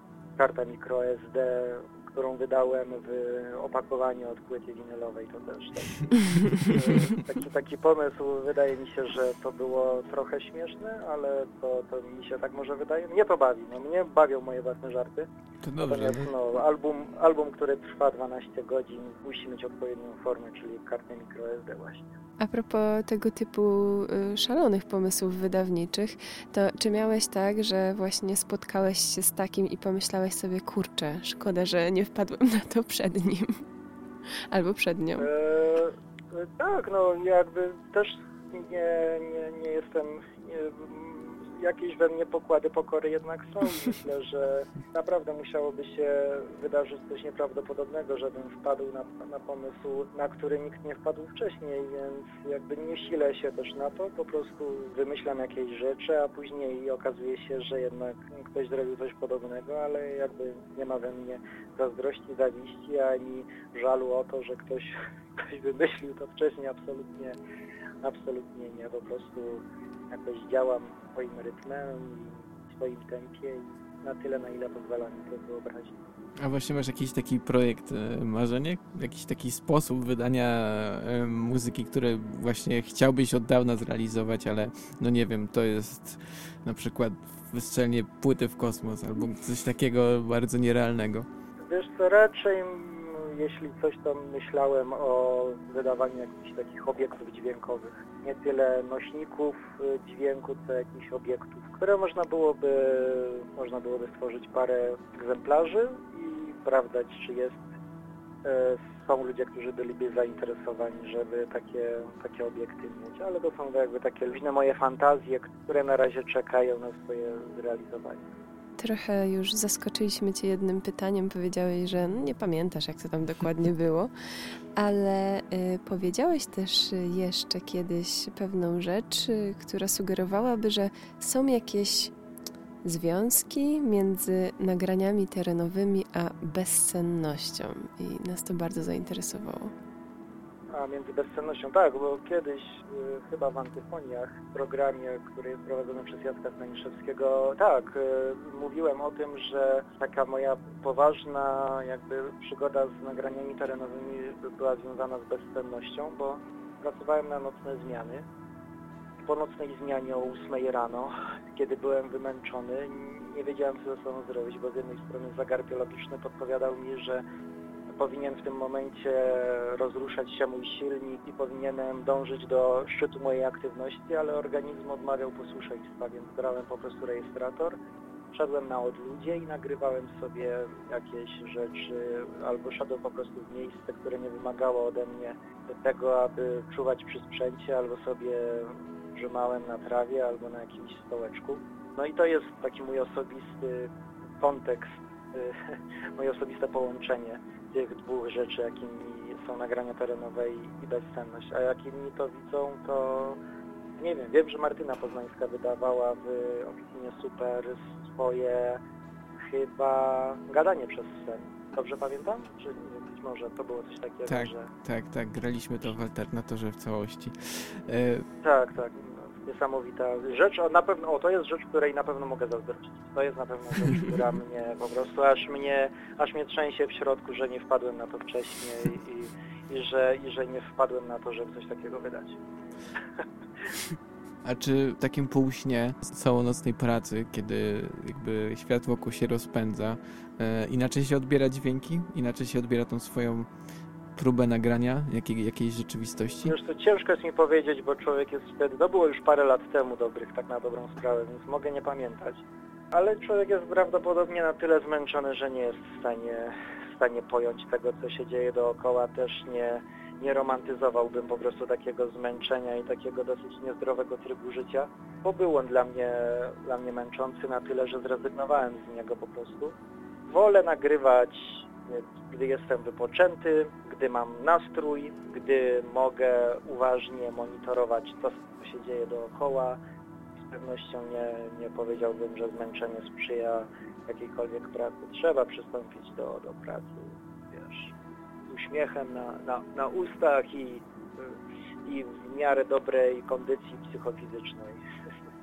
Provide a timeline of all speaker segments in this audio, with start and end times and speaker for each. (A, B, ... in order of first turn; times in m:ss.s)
0:00.4-0:22.1 A
0:15.6-0:16.3 B
0:22.4-0:33.6 C
0:34.5-0:35.3 C
0:35.2-1:07.4 A
1:08.0-1:16.0 A
1:16.4-1:31.3 B
1:31.6-1:47.6 A
1:48.4-1:58.3 A
1:58.8-2:04.1 C
2:04.8-2:12.1 C
2:12.8-2:19.7 C
2:20.7-2:38.3 A
2:39.2-2:47.2 A
2:47.9-2:57.8 A
2:58.3-3:23.4 A
3:24.0-3:28.8 A
3:29.4-3:34.7 A
3:34.3-3:38.3 B
3:38.4-3:52.4 A
3:54.4-4:03.5 B
4:04.2-4:06.5 B
4:06.4-4:29.8 A
4:30.3-4:39.8 A
4:40.4-4:47.9 A
4:48.5-4:54.8 A